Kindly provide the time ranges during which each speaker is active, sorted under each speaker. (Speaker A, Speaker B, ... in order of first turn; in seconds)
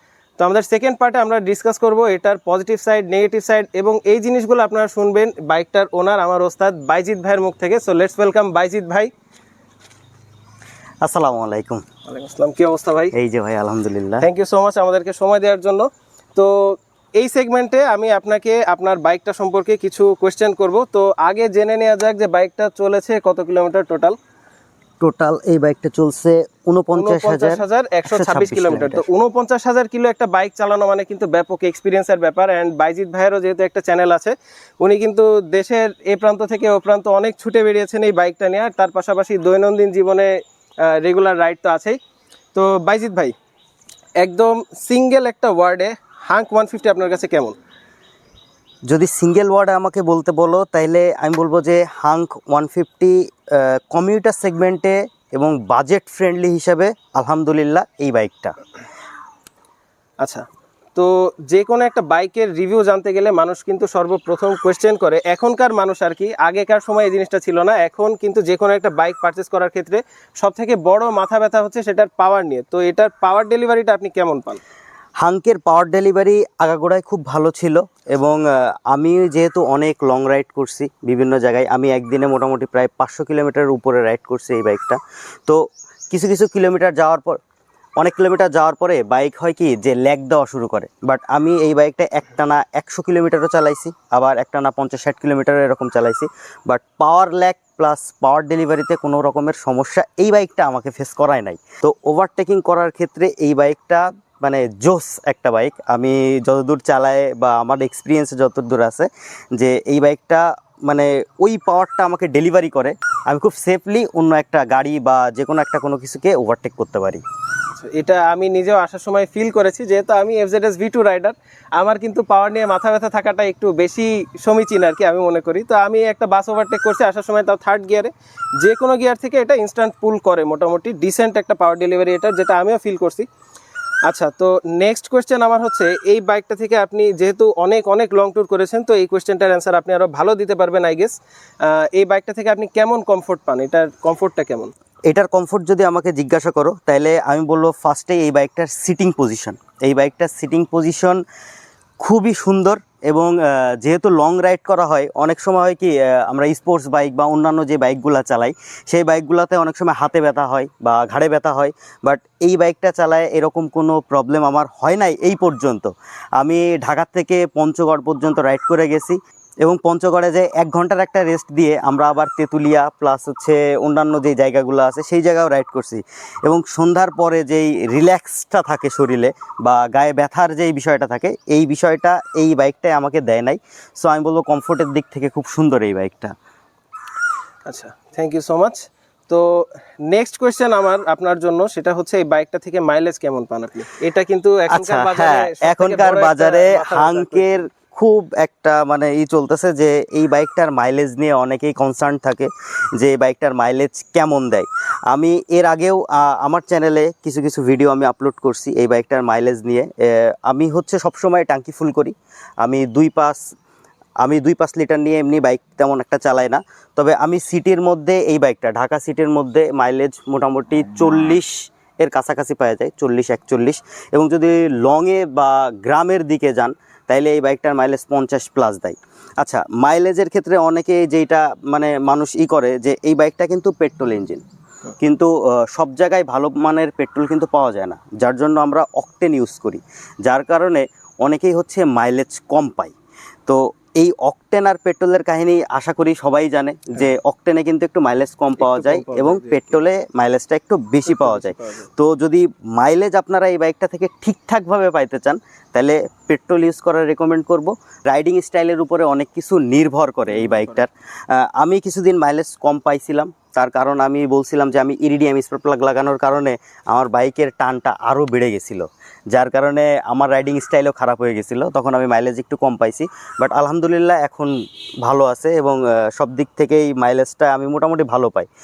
Speaker A: 0.4-9.1, 12.1-13.1, 14.2-24.1, 26.9-40.3, 40.8-42.0, 42.5-43.3, 44.2-47.5, 60.9-74.6, 117.7-133.3, 134.1-144.7, 187.7-197.6, 248.6-249.8, 251.1-251.9, 260.3-260.8
Speaker B: 11.0-11.8, 13.1-14.3, 25.0-29.1, 48.9-58.5, 75.2-87.4, 88.0-117.2, 145.1-151.2, 152.0-186.3, 194.7-213.4, 214.2-234.4, 235.0-242.9, 243.5-274.5, 275.0-278.5